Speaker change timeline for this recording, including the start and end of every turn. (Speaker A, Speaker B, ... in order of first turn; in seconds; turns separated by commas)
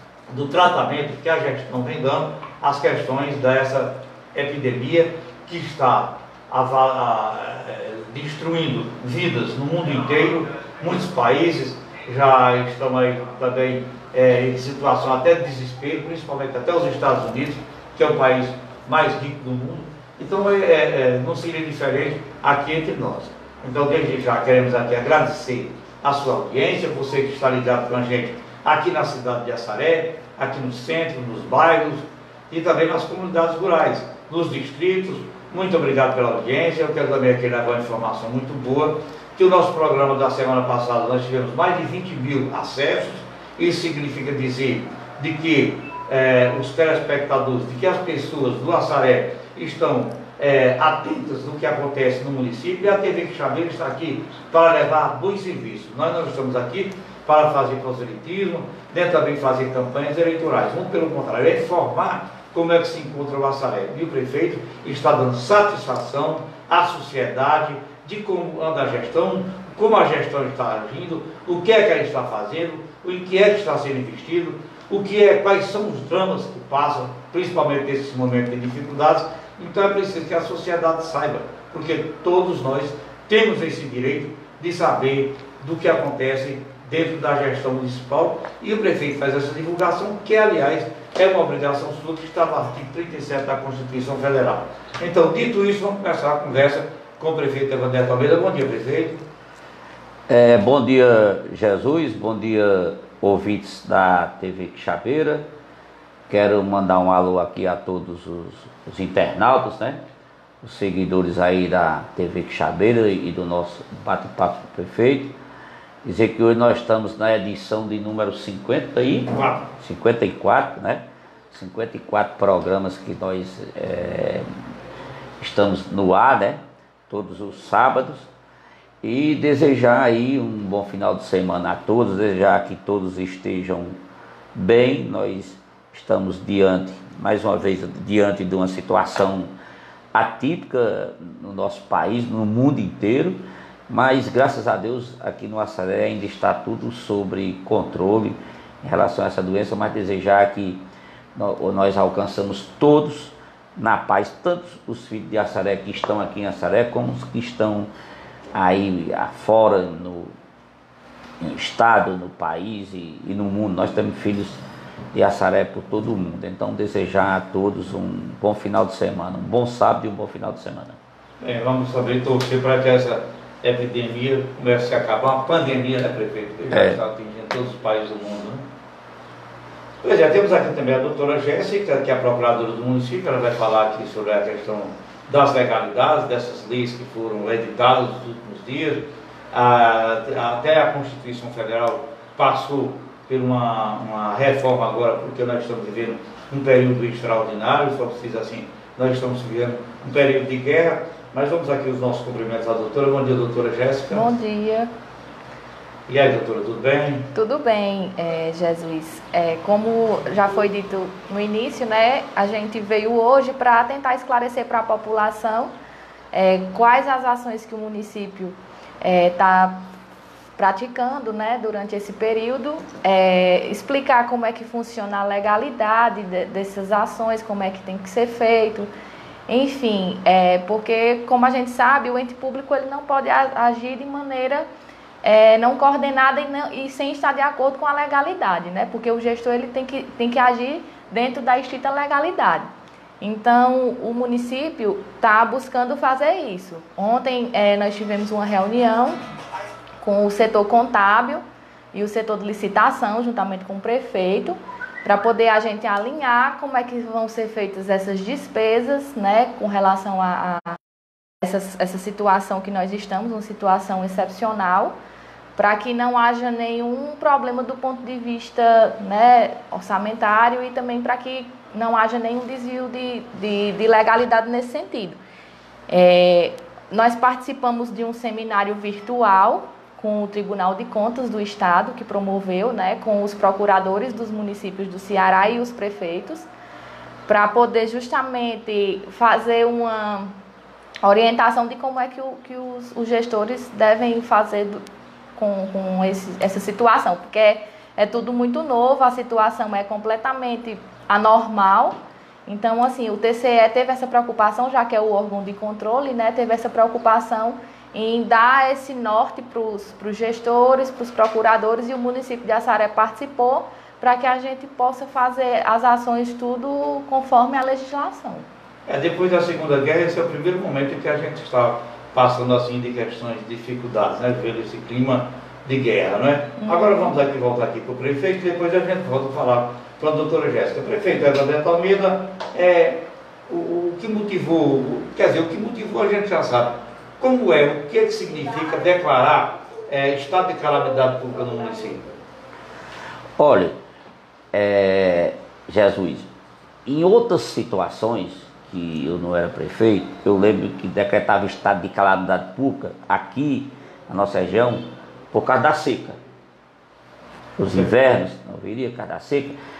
Speaker A: 0.3-99.2, Speaker B: 100.3-105.5, Speaker B: 106.3-110.0, Speaker B: 110.6-115.3, Speaker B: 116.0-124.5, Speaker A: 119.3-119.7, Speaker B: 125.4-128.3, Speaker B: 129.0-134.0, Speaker B: 134.5-139.5, Speaker B: 140.1-150.8, Speaker B: 151.3-157.9, Speaker B: 158.5-160.3, Speaker B: 161.4-164.6, Speaker B: 165.1-171.0, Speaker A: 171.4-178.6, Speaker B: 176.7-177.0, Speaker A: 180.0-204.3, Speaker C: 204.1-204.9, Speaker A: 206.1-207.3, Speaker C: 207.3-215.7, Speaker C: 216.3-219.8, Speaker C: 220.6-228.9, Speaker C: 229.5-234.7, Speaker C: 235.2-242.7, Speaker C: 243.2-249.2, Speaker C: 250.0-260.8, Speaker C: 261.4-264.9, Speaker C: 265.6-275.2, Speaker C: 275.9-286.4, Speaker C: 287.2-290.3, Speaker C: 291.0-294.8, Speaker C: 295.4-318.4, Speaker A: 318.9-342.1, Speaker C: 326.6-327.1, Speaker B: 343.4-343.8, Speaker B: 344.5-346.3, Speaker B: 346.9-356.2, Speaker B: 357.6-359.6, Speaker A: 357.6-357.9